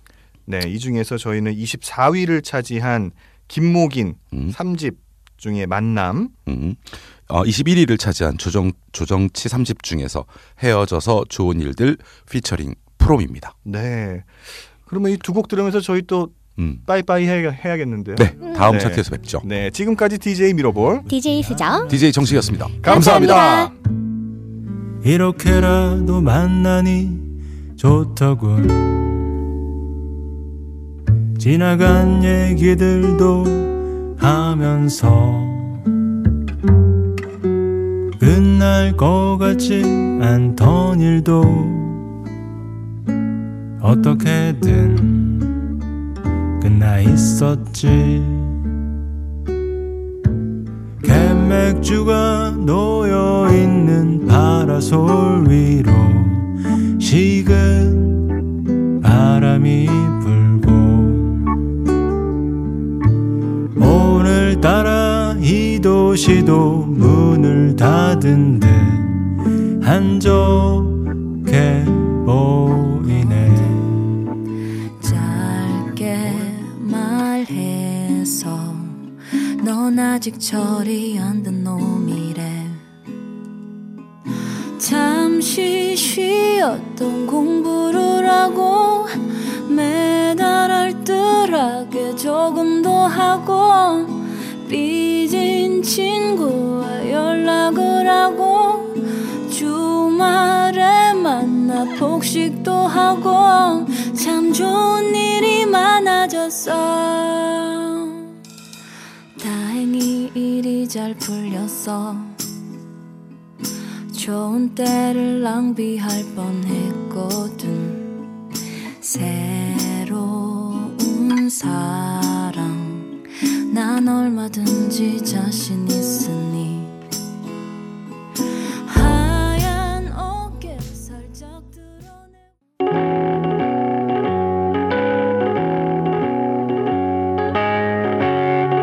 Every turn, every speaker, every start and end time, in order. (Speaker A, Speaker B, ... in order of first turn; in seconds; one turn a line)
Speaker A: 0.5-6.3
Speaker B: 6.5-13.6
Speaker A: 13.7-21.1
Speaker B: 16.6-16.9
Speaker B: 18.2-19.4
Speaker C: 18.4-18.7
Speaker C: 21.1-21.9
Speaker B: 21.9-23.4
Speaker A: 22.8-23.7
Speaker C: 22.8-23.7
Speaker D: 25.0-29.2
Speaker D: 31.4-35.9
Speaker D: 38.2-42.1
Speaker D: 43.8-45.6
Speaker D: 46.6-48.6
Speaker D: 51.0-58.3
Speaker D: 59.0-61.6
Speaker D: 63.8-69.2
Speaker D: 69.8-74.2
Speaker E: 75.0-79.1
Speaker E: 79.6-82.8
Speaker E: 84.8-108.3
Speaker E: 109.4-112.3
Speaker E: 114.1-118.2
Speaker E: 119.0-127.0
Speaker E: 128.9-132.4